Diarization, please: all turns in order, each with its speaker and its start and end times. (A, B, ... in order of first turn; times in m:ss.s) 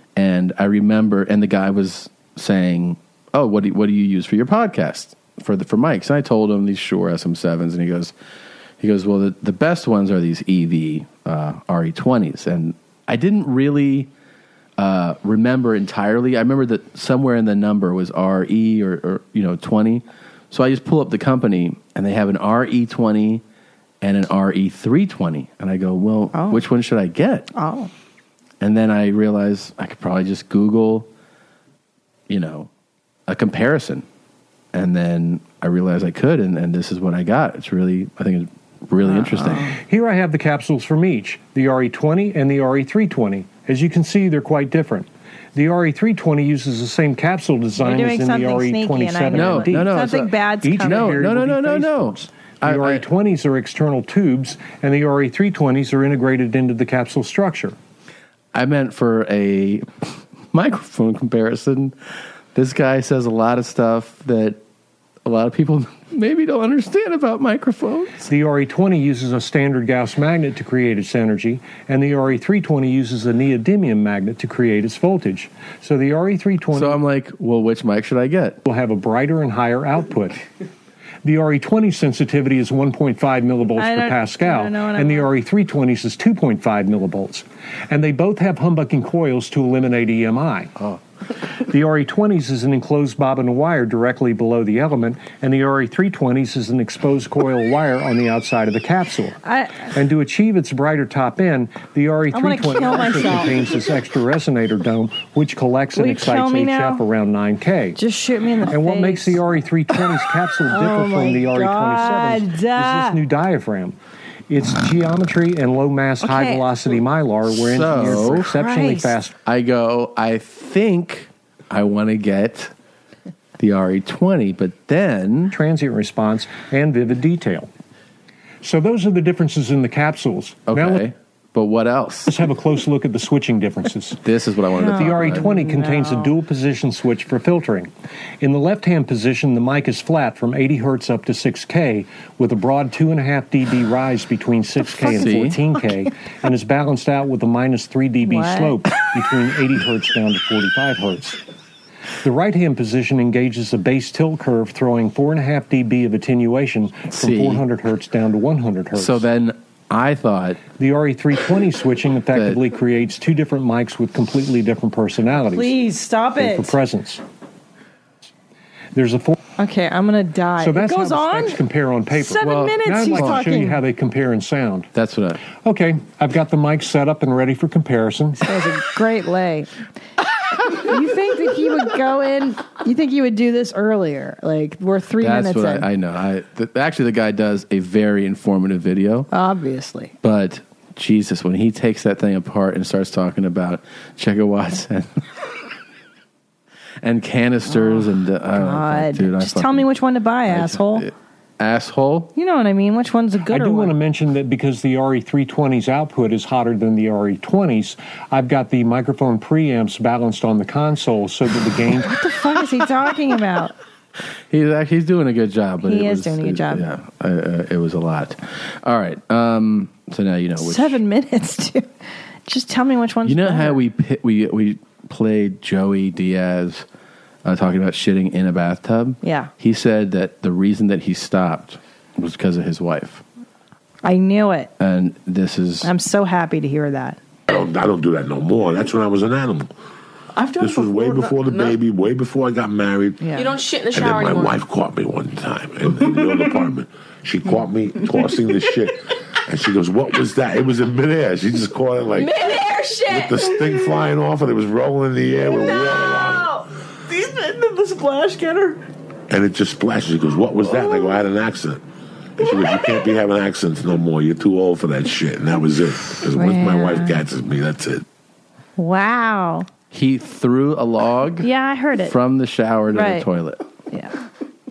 0:00.2-0:08.1 A
0:08.8-0:14.1 A
0:14.8-0:23.4 A
0:24.0-0:27.5 A
0:26.3-0:26.6 B
0:27.5-0:27.9 B
0:28.6-0:31.1 A
0:32.3-0:32.7 A
0:33.3-0:34.0 A
0:34.7-0:39.7 A
0:39.0-0:39.8 B
0:39.8-0:57.7 C
0:47.8-0:51.1 B
0:49.3-0:53.0 A
0:58.5-1:02.0 A
1:02.5-1:04.6 A
1:05.2-1:08.3 A
1:08.3-1:17.0 C
1:16.7-1:18.6 A
1:18.7-1:20.4 C
1:21.2-1:30.7 C
1:23.8-1:25.3 B
1:31.7-1:48.0 C
1:39.4-1:39.9 B
1:42.3-1:43.6 B
1:45.9-1:47.0 B
1:47.9-1:49.4 B
1:48.7-1:54.0 C
1:50.6-1:53.2 B
1:54.5-1:59.3 C
1:56.2-1:56.6 B
1:57.5-1:58.5 A
1:58.1-1:59.2 B
1:59.4-2:02.7 A
2:03.6-2:05.6 A
2:05.5-2:07.7 C
2:08.6-2:11.1 C
2:10.7-2:12.3 A
2:12.3-2:14.2 C
2:14.2-2:15.4 A
2:14.8-2:16.3 B
2:14.9-2:17.9 C
2:18.4-2:31.4 C
2:25.0-2:25.6 A
2:28.2-2:28.8 B
2:32.2-2:39.2 C
2:37.1-2:37.6 A
2:39.0-2:40.6 A
2:40.7-2:45.7 C
2:42.3-2:42.6 A
2:45.5-2:46.7 B
2:46.4-2:47.2 C
2:48.9-2:49.4 C
2:49.6-2:51.6 B
2:50.6-2:54.9 C
2:52.2-2:53.8 B
2:52.4-2:53.5 A
2:54.9-2:55.4 A
2:55.5-2:58.4 C
2:58.4-2:59.7 B
3:00.8-3:05.9 B
3:05.2-3:09.3 A
3:09.3-3:10.1 B
3:10.2-3:15.1 A
3:17.0-3:19.9 A
3:17.7-3:21.0 B
3:20.4-3:22.3 A
3:22.4-3:23.9 B
3:23.5-3:32.1 C
3:32.0-3:33.7 B
3:34.5-3:41.0 A
3:35.8-3:36.8 B
3:40.6-3:41.8 B
3:42.5-3:43.8 B
3:43.2-3:46.8 A
3:47.4-3:53.2 A
3:49.2-3:49.5 B
3:54.0-3:54.7 B
3:54.8-3:55.9 A
3:55.8-3:57.2 B
3:57.5-3:59.7 D
4:00.4-4:01.7 E
4:00.5-4:03.2 D
4:03.2-4:03.5 B
4:03.3-4:04.6 E
4:03.9-4:16.5 D
4:12.1-4:14.0 E
4:15.4-4:18.8 E
4:19.3-4:21.8 D
4:22.4-4:28.0 D
4:26.3-4:27.2 B
4:28.8-4:29.6 B
4:29.9-4:33.6 A
4:31.4-4:32.1 B
4:32.9-4:33.2 B